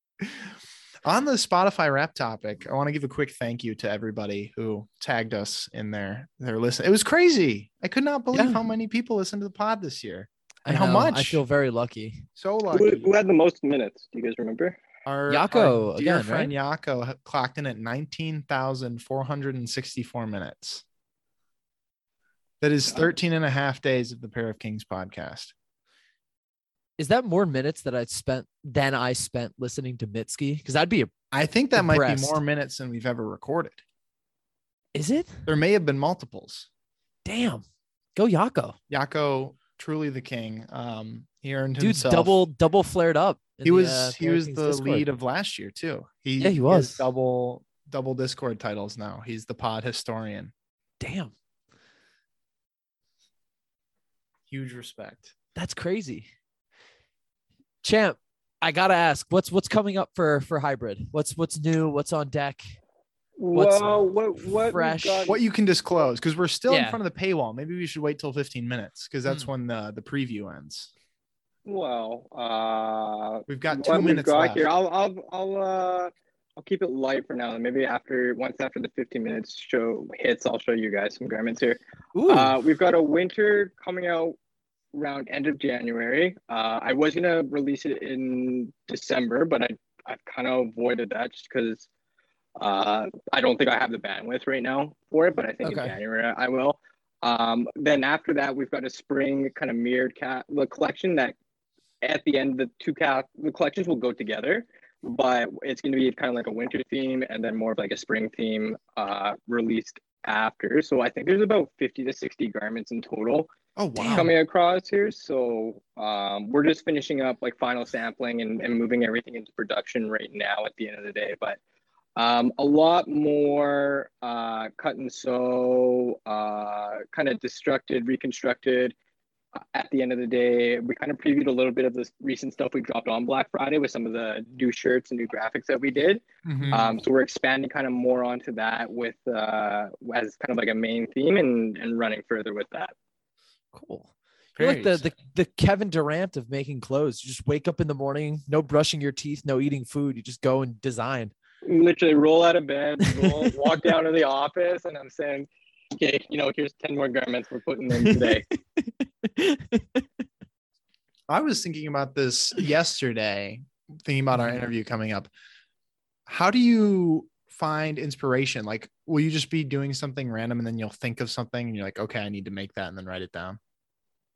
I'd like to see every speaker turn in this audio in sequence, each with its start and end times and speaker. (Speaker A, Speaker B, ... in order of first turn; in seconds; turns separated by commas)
Speaker A: 1.0-11.4, Speaker B: 8.3-8.6, Speaker B: 10.7-12.2, Speaker A: 12.3-13.1, Speaker C: 12.7-14.8, Speaker A: 15.0-20.8, Speaker B: 15.3-16.5, Speaker A: 22.6-25.5, Speaker B: 27.0-31.1, Speaker A: 31.3-33.8, Speaker B: 31.7-32.4, Speaker B: 34.9-35.5, Speaker A: 35.5-36.7, Speaker B: 37.2-37.6, Speaker B: 38.1-38.8, Speaker A: 38.9-42.5, Speaker B: 41.8-45.1, Speaker A: 43.6-50.5, Speaker B: 46.4-47.1, Speaker B: 51.0-51.3, Speaker A: 54.5-55.3, Speaker B: 55.5-56.3, Speaker B: 57.8-62.6, Speaker C: 63.4-65.4, Speaker B: 63.5-65.4, Speaker A: 65.3-70.9, Speaker B: 66.7-67.0, Speaker C: 71.7-84.3, Speaker A: 73.5-74.6, Speaker B: 82.1-82.5, Speaker C: 84.9-91.9, Speaker C: 92.6-101.3, Speaker B: 95.6-95.9, Speaker C: 102.0-121.6, Speaker A: 113.8-114.3, Speaker C: 122.2-128.9, Speaker C: 129.7-142.9, Speaker A: 136.4-137.0, Speaker B: 143.7-151.3, Speaker A: 144.6-145.1, Speaker C: 151.6-158.4, Speaker B: 153.1-153.4, Speaker B: 158.0-160.0, Speaker A: 161.3-165.3, Speaker B: 164.3-164.6, Speaker A: 166.3-173.6